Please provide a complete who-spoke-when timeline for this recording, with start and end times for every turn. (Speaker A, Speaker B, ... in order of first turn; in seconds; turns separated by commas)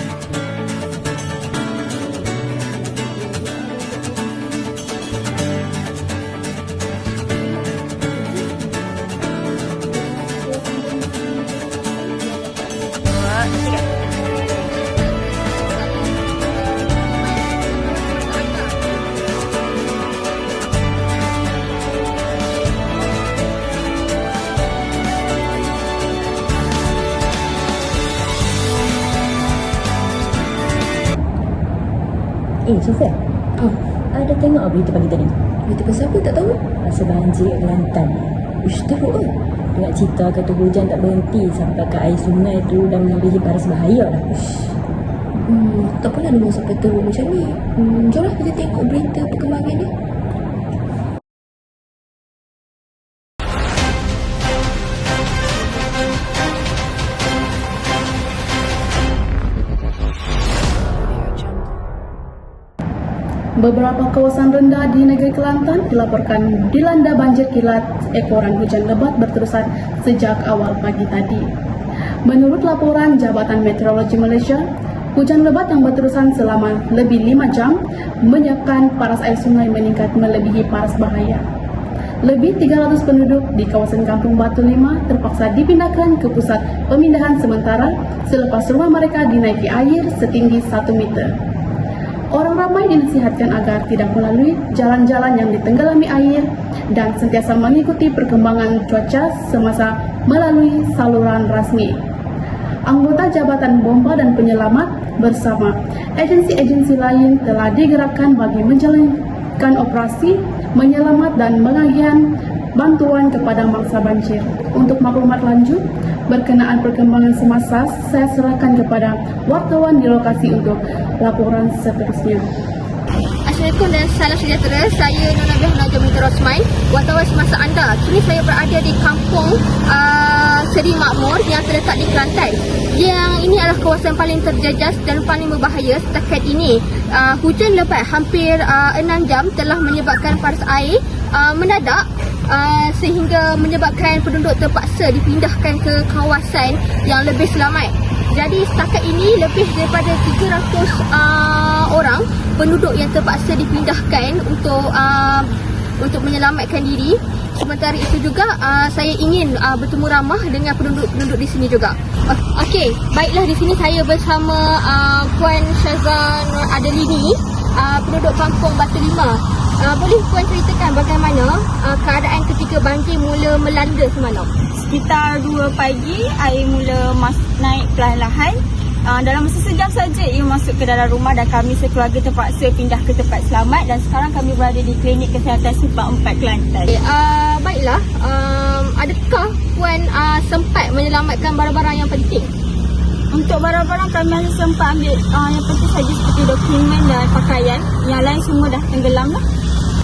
Speaker A: 3.4-3.7, Speaker A: 10.5-10.9, Speaker B: 13.4-13.9, Speaker B: 14.5-18.9, Speaker A: 32.6-33.2, Speaker A: 34.1-35.4, Speaker C: 35.6-36.6, Speaker A: 36.7-38.4, Speaker C: 38.6-39.3, Speaker A: 39.7-44.8, Speaker C: 45.3-49.9, Speaker D: 63.6-71.5, Speaker D: 72.2-81.4, Speaker D: 82.2-91.3, Speaker D: 92.3-102.0, Speaker D: 102.9-122.4, Speaker B: 123.5-174.5, Speaker E: 174.8-186.9, Speaker B: 186.9-192.5, Speaker E: 193.3-199.4